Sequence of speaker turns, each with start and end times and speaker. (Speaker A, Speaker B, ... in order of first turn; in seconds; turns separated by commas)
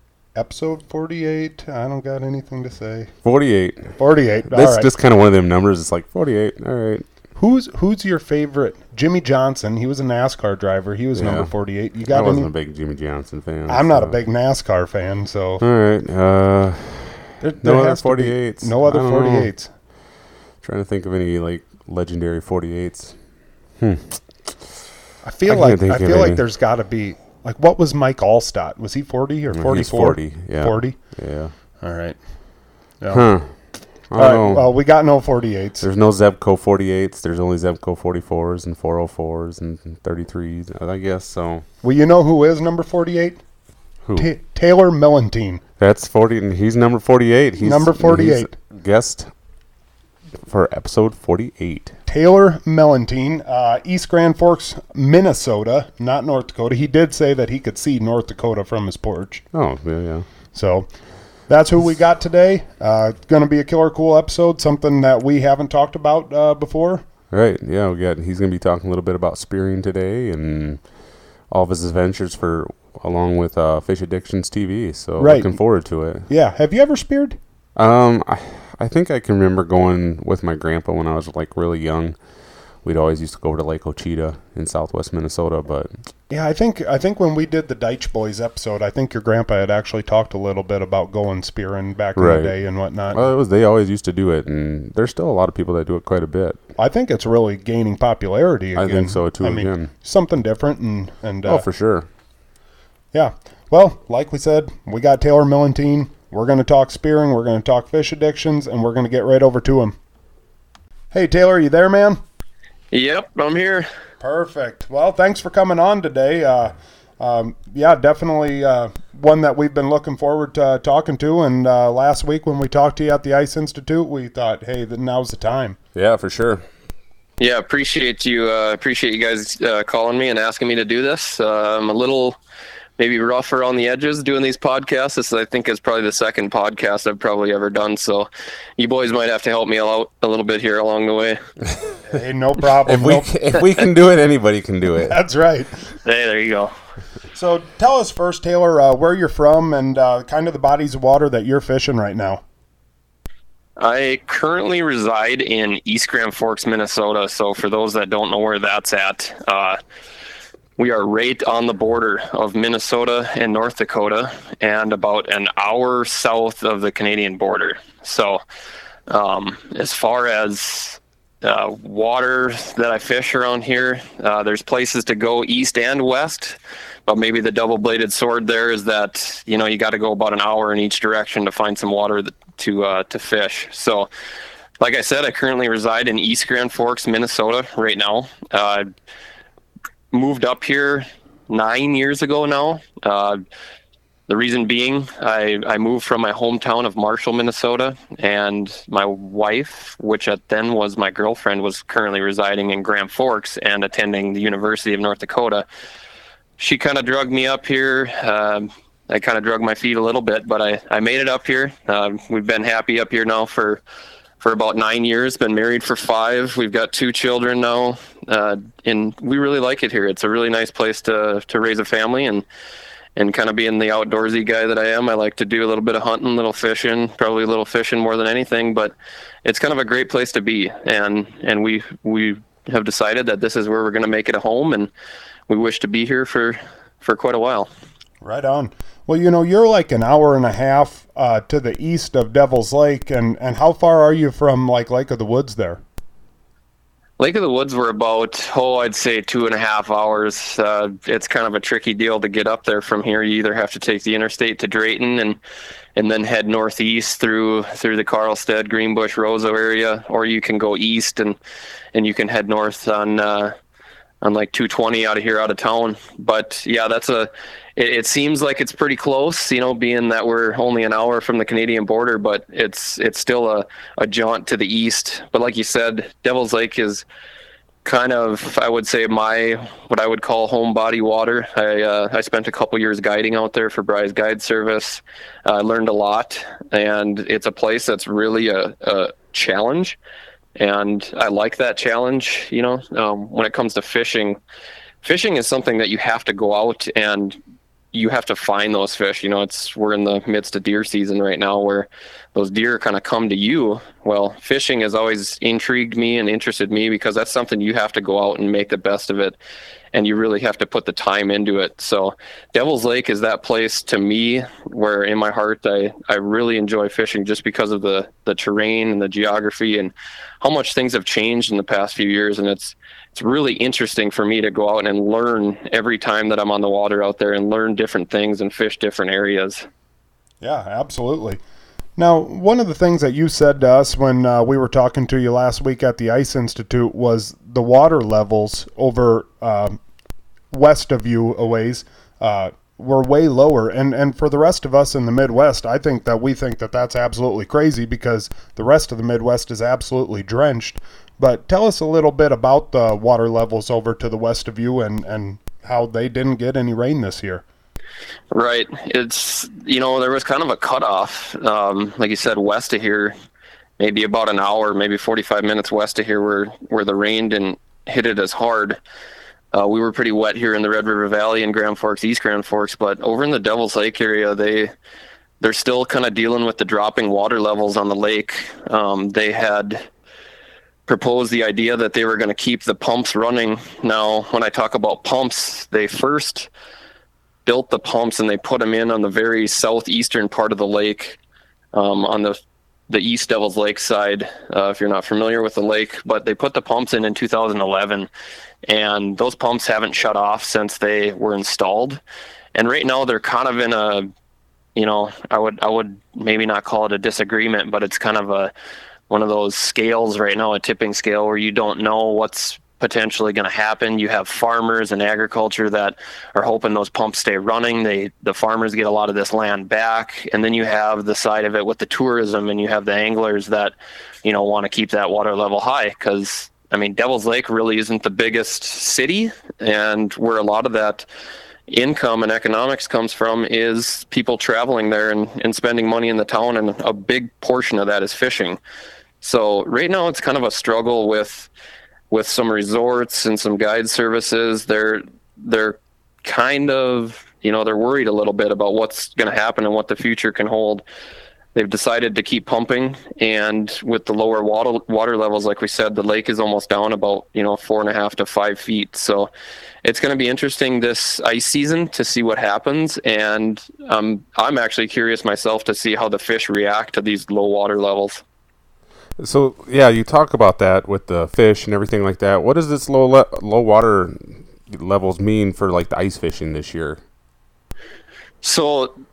Speaker A: 0.3-3.1, Speaker B: 3.2-4.0, Speaker A: 4.0-4.9, Speaker B: 4.5-7.0, Speaker A: 7.3-12.5, Speaker B: 11.1-11.5, Speaker B: 12.0-14.2, Speaker A: 13.7-15.6, Speaker B: 15.6-19.5, Speaker A: 17.4-19.7, Speaker B: 20.6-23.2, Speaker B: 23.8-24.7, Speaker A: 25.2-31.0, Speaker B: 25.5-26.4, Speaker B: 29.5-31.5, Speaker A: 31.8-35.8, Speaker B: 33.1-34.7, Speaker B: 35.8-41.6, Speaker A: 41.8-43.4, Speaker B: 44.0-44.3, Speaker A: 44.1-45.6, Speaker B: 45.8-49.3, Speaker A: 47.6-48.5, Speaker B: 50.4-51.9, Speaker A: 52.1-59.4, Speaker B: 59.5-60.2, Speaker A: 60.5-67.0, Speaker B: 67.3-70.9, Speaker B: 71.5-76.3, Speaker A: 75.2-77.4, Speaker B: 77.8-82.2, Speaker B: 82.8-85.9, Speaker A: 86.3-93.3, Speaker B: 92.2-92.5, Speaker B: 93.1-96.6, Speaker A: 96.8-101.6, Speaker B: 98.7-99.9, Speaker B: 101.5-102.0, Speaker A: 103.1-110.0, Speaker A: 111.1-112.2, Speaker C: 112.9-113.9, Speaker A: 114.2-125.8, Speaker B: 125.9-126.6, Speaker C: 127.4-132.4, Speaker C: 133.0-141.4, Speaker A: 142.1-143.7, Speaker B: 142.8-145.2, Speaker A: 145.0-145.9, Speaker C: 146.0-146.7, Speaker A: 147.3-152.4, Speaker C: 153.8-159.8, Speaker C: 160.8-168.4, Speaker C: 169.1-184.1, Speaker C: 184.8-188.9, Speaker C: 190.1-193.4, Speaker C: 194.3-205.6, Speaker C: 206.6-213.8, Speaker C: 214.4-222.4, Speaker C: 223.2-228.9, Speaker C: 229.4-234.9, Speaker C: 235.5-237.7, Speaker A: 238.2-245.8, Speaker C: 247.2-255.4, Speaker C: 255.9-261.4, Speaker C: 261.9-263.5, Speaker C: 264.2-277.0, Speaker C: 277.8-290.0, Speaker C: 290.6-294.4, Speaker C: 295.0-297.4, Speaker C: 297.9-309.4, Speaker C: 309.9-329.7, Speaker A: 330.4-331.4, Speaker A: 332.0-339.8, Speaker A: 340.5-357.4, Speaker C: 358.3-363.1, Speaker C: 363.8-368.8, Speaker C: 369.5-374.7, Speaker C: 375.4-379.8, Speaker C: 380.9-386.5, Speaker C: 387.4-391.2, Speaker C: 391.7-392.4, Speaker C: 392.9-398.1, Speaker C: 398.6-402.0, Speaker C: 402.5-404.1, Speaker C: 404.8-408.5, Speaker C: 409.1-431.1, Speaker C: 431.7-438.6, Speaker C: 439.2-441.5, Speaker C: 442.1-450.8, Speaker C: 451.5-459.3, Speaker C: 459.8-468.2, Speaker B: 469.2-477.0, Speaker C: 478.4-478.9